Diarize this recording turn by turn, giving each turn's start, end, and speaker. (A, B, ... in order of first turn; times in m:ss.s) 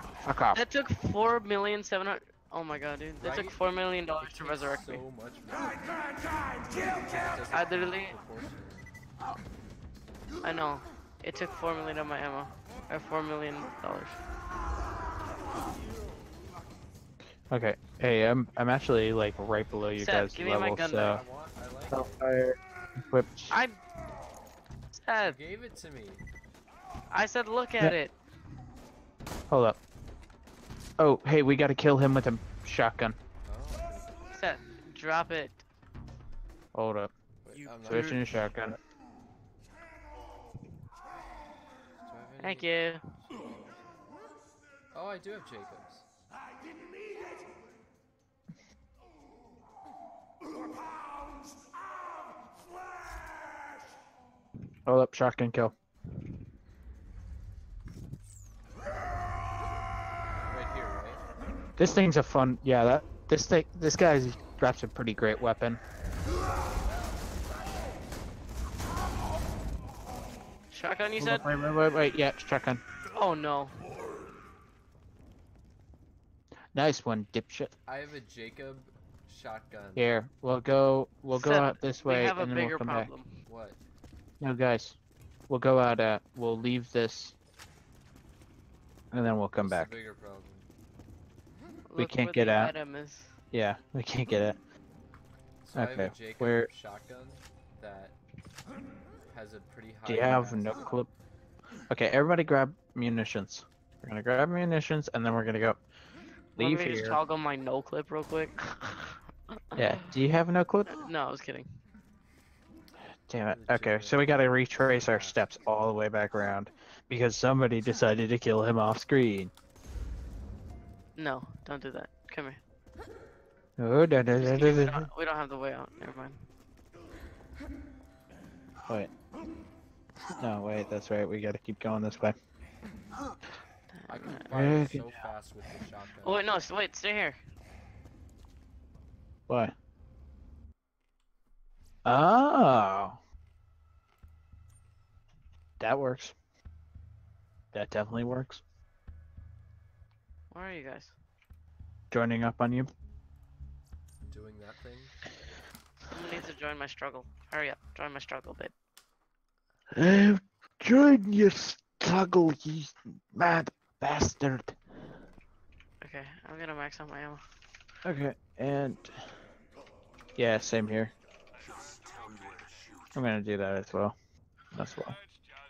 0:00.2-0:00.6 A
0:00.5-0:05.0 B
0:03.2-0:05.8 C
0:06.7-0:08.9 C
0:07.5-0:08.2 B
0:10.4-0:14.2 B
0:17.5-0:21.2 A
0:19.9-0:21.2 B
0:21.0-0:22.2 C
0:21.9-0:23.6 A
0:23.5-0:23.8 B
0:24.9-0:25.4 B
0:25.2-0:26.2 C
0:27.1-0:28.1 B
0:29.5-0:29.8 A
0:31.0-0:33.2 A
0:33.4-0:34.3 C
0:34.3-0:35.6 B
0:36.7-0:37.1 A
0:37.4-0:38.5 C
0:37.5-0:38.2 B
0:37.9-0:38.8 A
0:42.0-0:43.8 C
0:42.4-0:43.1 B
0:44.9-0:46.0 C
0:54.8-0:55.7 A
1:00.4-1:01.2 C
1:01.8-1:05.8 A
1:10.7-1:11.5 B
1:11.2-1:12.8 A
1:13.1-1:13.8 B
1:16.7-1:17.7 A
1:17.8-1:20.1 C
1:20.0-1:23.1 A
1:21.3-1:23.3 B
1:23.4-1:23.8 C
1:24.4-1:25.0 A
1:25.5-1:27.3 A
1:29.1-1:29.9 A
1:29.6-1:30.7 C
1:31.9-1:33.3 B
1:32.0-1:32.7 A
1:33.5-1:34.6 A
1:35.6-1:38.2 C
1:35.7-1:36.7 A
1:39.3-1:41.0 C
1:40.0-1:41.1 A
1:41.9-1:45.8 A
1:46.6-1:49.2 B
1:46.6-1:47.2 A
1:49.7-1:50.1 B
1:49.8-1:51.0 A
1:50.9-1:51.7 B
1:53.3-1:59.5 A
1:53.5-1:55.5 C
2:01.2-2:02.6 B
2:03.8-2:05.1 A
2:04.3-2:06.4 B
2:10.4-2:12.4 A
2:14.0-2:14.4 B
2:14.1-2:16.6 C
2:14.5-2:15.1 A
2:16.2-2:17.4 B
2:19.5-2:19.7 A
2:22.0-2:23.2 A
2:25.8-2:26.3 A
2:27.7-2:28.6 A
2:30.5-2:31.1 B
2:32.1-2:32.9 A
2:34.3-2:35.2 C
2:36.1-2:38.7 B
2:39.9-2:44.8 A
2:46.0-2:47.4 B
2:48.0-2:49.1 A
2:50.4-2:51.1 A
2:53.1-2:54.1 A
2:54.7-2:55.1 A